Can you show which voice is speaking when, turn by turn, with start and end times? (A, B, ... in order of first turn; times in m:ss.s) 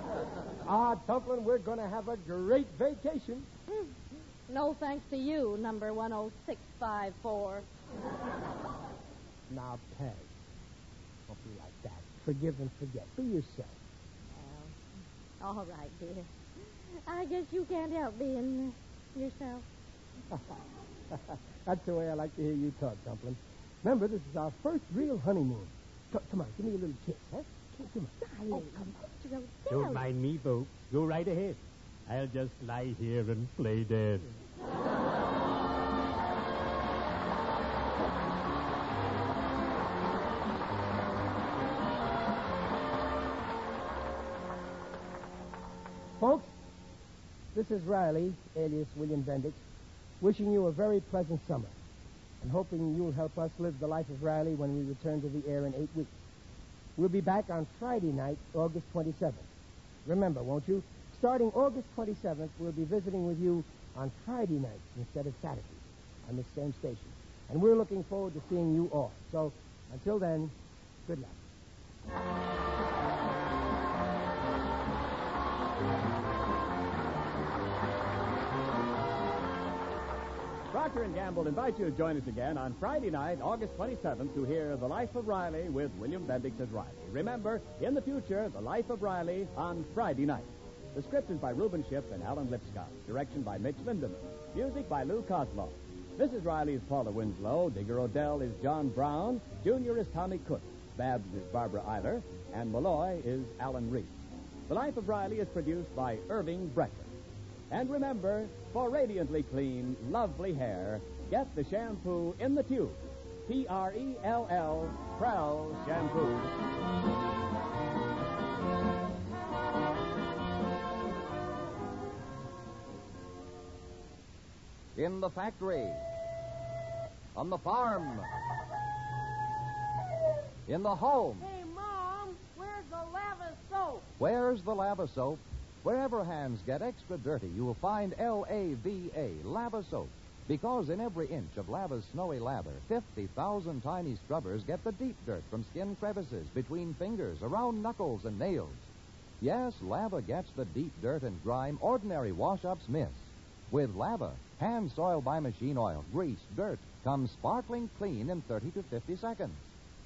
0:00.6-0:03.5 A
0:04.5-0:07.7 B
0:09.5-0:10.3 A
0:11.3-0:13.8 A
0:14.3-0:14.7 B
0:15.4-0:19.6 B
0:21.1-0:29.1 A
0:28.2-0:30.1 B
0:29.7-0:34.3 C
0:46.2-0:46.6 A
0:47.5-0:49.6 A
0:50.2-0:51.7 A
0:52.4-0:56.1 A
0:57.0-0:59.5 A
1:00.0-1:11.4 A
1:20.7-1:44.1 D
1:44.7-1:47.1 D
1:47.7-1:56.6 D
2:04.9-2:06.0 E
2:07.3-2:08.3 E
2:10.6-2:11.5 E
2:11.4-2:14.1 F
2:14.2-2:28.9 E
2:29.4-2:39.6 E